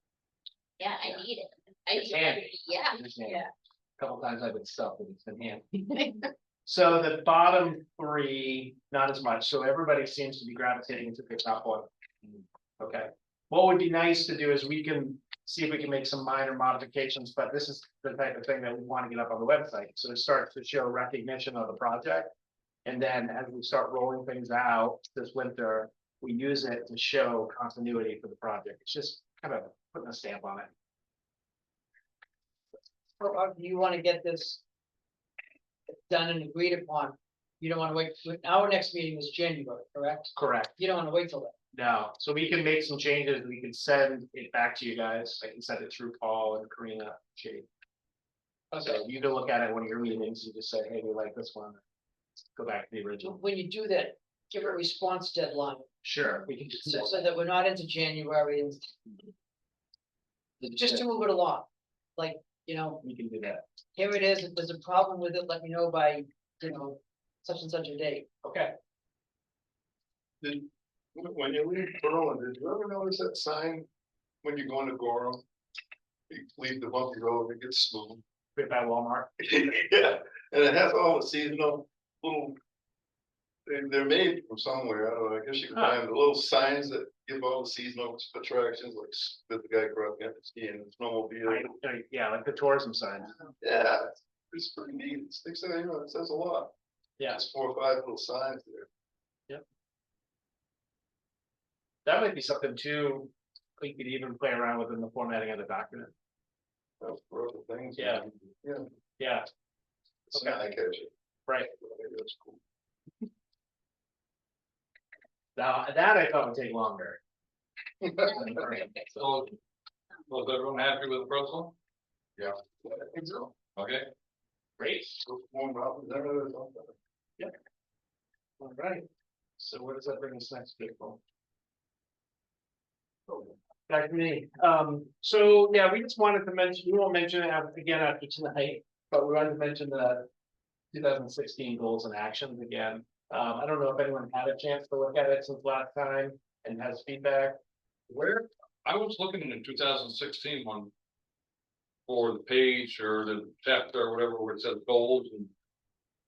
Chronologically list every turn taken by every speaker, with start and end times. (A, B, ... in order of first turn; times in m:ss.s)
0:00.8-0:03.0 A
0:01.9-0:06.0 B
0:06.6-0:11.9 B
0:12.8-0:22.3 B
0:22.8-0:30.7 B
0:33.2-0:34.6 C
0:35.9-0:41.5 C
0:40.4-0:40.8 B
0:41.7-0:47.7 B
0:48.7-0:49.0 C
0:48.8-0:51.8 B
0:52.6-0:53.4 B
0:53.2-0:55.9 C
0:56.0-0:57.3 B
0:56.7-0:59.1 C
1:00.6-1:03.0 C
1:03.0-1:03.6 B
1:04.0-1:08.3 C
1:08.4-1:08.7 B
1:10.4-1:13.9 D
1:14.4-1:15.4 D
1:16.3-1:18.2 D
1:18.6-1:19.3 B
1:19.4-1:22.6 D
1:23.6-1:31.7 D
1:31.5-1:33.3 B
1:33.6-1:36.7 D
1:37.3-1:38.9 D
1:42.0-1:46.1 B
1:47.0-1:48.9 D
1:48.0-1:48.2 B
1:49.2-1:49.5 B
1:50.3-1:51.1 D
1:50.3-1:50.6 B
1:51.7-1:52.6 D
1:55.6-1:57.2 B
1:58.2-1:59.2 B
1:59.2-1:59.6 E
2:00.3-2:01.7 E
2:02.4-2:03.5 D
2:03.8-2:04.1 E
2:04.8-2:05.2 B
2:05.2-2:07.0 D
2:08.6-2:09.1 B
2:09.6-2:11.2 B
2:13.3-2:20.3 B
2:20.9-2:27.6 B
2:28.1-2:30.9 E
2:32.1-2:35.5 E